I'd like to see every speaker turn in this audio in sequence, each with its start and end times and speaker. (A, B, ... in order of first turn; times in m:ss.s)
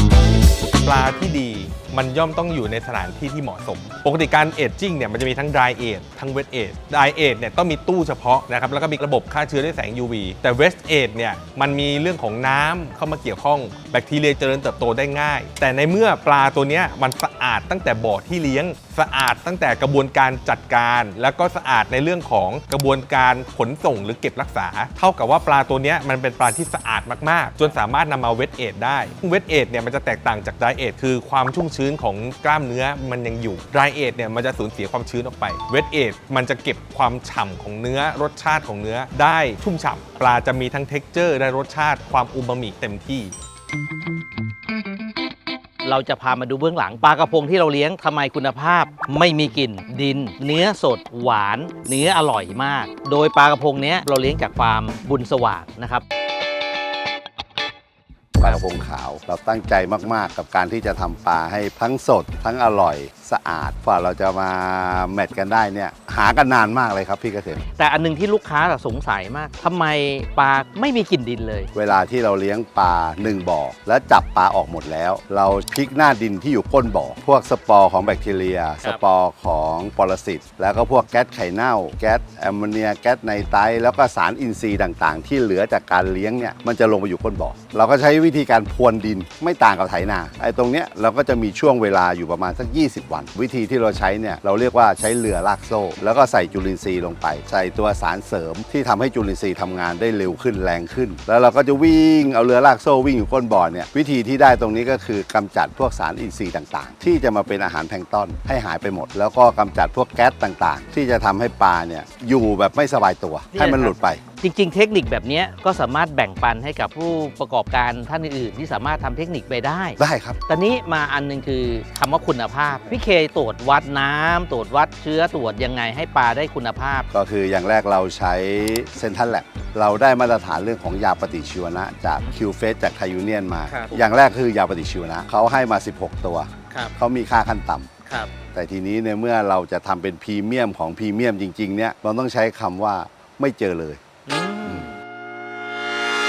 0:00.8-0:43.4 A
0:45.8-0:56.0 B
0:58.4-1:07.6 C
0:58.4-0:58.7 B
1:07.8-1:11.7 B
1:11.7-1:54.2 C
1:53.5-2:07.1 B
2:00.0-2:00.4 C
2:07.1-2:17.9 C
2:13.7-2:14.0 B
2:18.1-2:18.3 B
2:18.5-2:24.0 C
2:24.3-2:25.0 B